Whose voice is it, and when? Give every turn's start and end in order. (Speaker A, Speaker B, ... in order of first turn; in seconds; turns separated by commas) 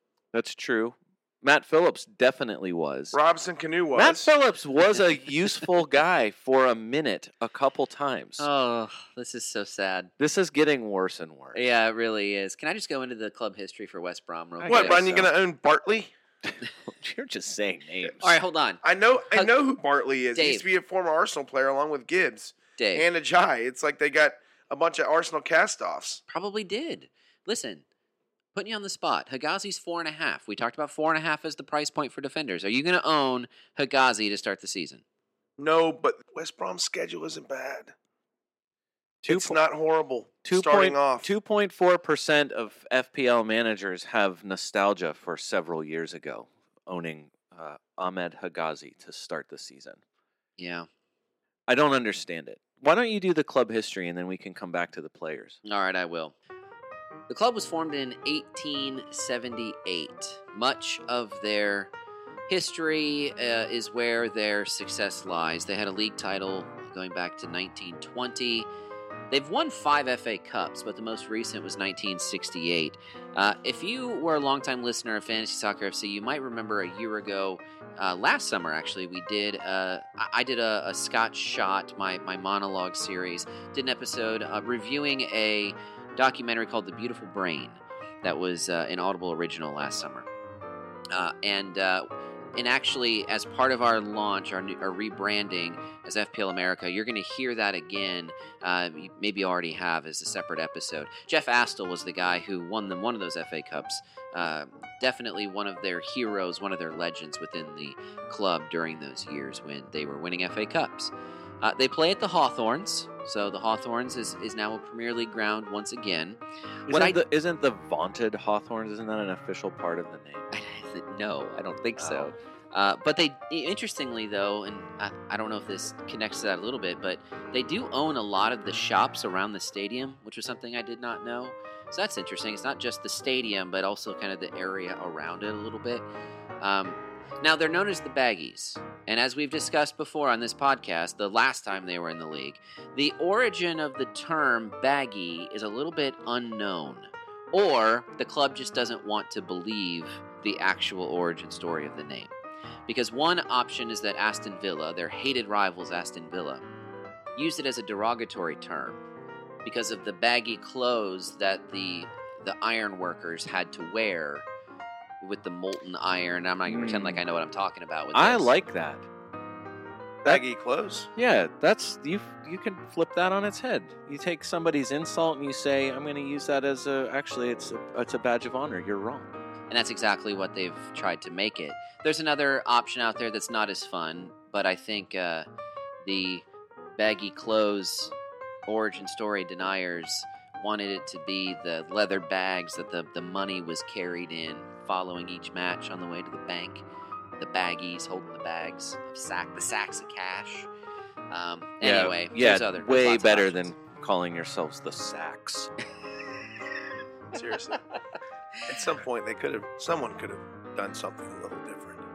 Speaker A: 0.3-3.2, Speaker B: 3.1-4.3, Speaker A: 4.0-8.5, Speaker C: 8.4-10.1, Speaker A: 10.2-11.6, Speaker C: 11.5-15.3, Speaker A: 14.6-15.2, Speaker B: 14.7-16.1, Speaker A: 16.5-18.4, Speaker C: 18.2-19.5, Speaker B: 18.8-26.2, Speaker C: 20.4-20.7, Speaker C: 22.8-23.1, Speaker C: 26.3-27.9, Speaker C: 28.5-35.0, Speaker B: 35.6-37.9, Speaker A: 39.2-39.6, Speaker B: 39.3-41.3, Speaker A: 40.5-50.0, Speaker C: 50.6-50.9, Speaker A: 51.7-55.6, Speaker C: 55.6-56.3, Speaker C: 57.3-61.9, Speaker C: 62.5-68.7, Speaker C: 69.3-90.3, Speaker C: 91.1-117.2, Speaker A: 116.9-120.5, Speaker C: 120.5-136.1, Speaker A: 122.0-122.3, Speaker C: 136.6-152.3, Speaker C: 152.9-156.7, Speaker C: 157.4-159.0, Speaker C: 159.7-164.4, Speaker C: 165.2-168.5, Speaker A: 166.7-167.2, Speaker A: 168.1-169.1, Speaker B: 170.2-171.1, Speaker A: 171.2-179.3, Speaker C: 179.7-185.5, Speaker C: 186.0-186.5, Speaker C: 187.0-188.1, Speaker C: 188.7-196.8, Speaker C: 197.4-200.7, Speaker C: 201.3-203.7, Speaker A: 201.8-205.7, Speaker B: 207.3-207.8, Speaker B: 208.7-212.0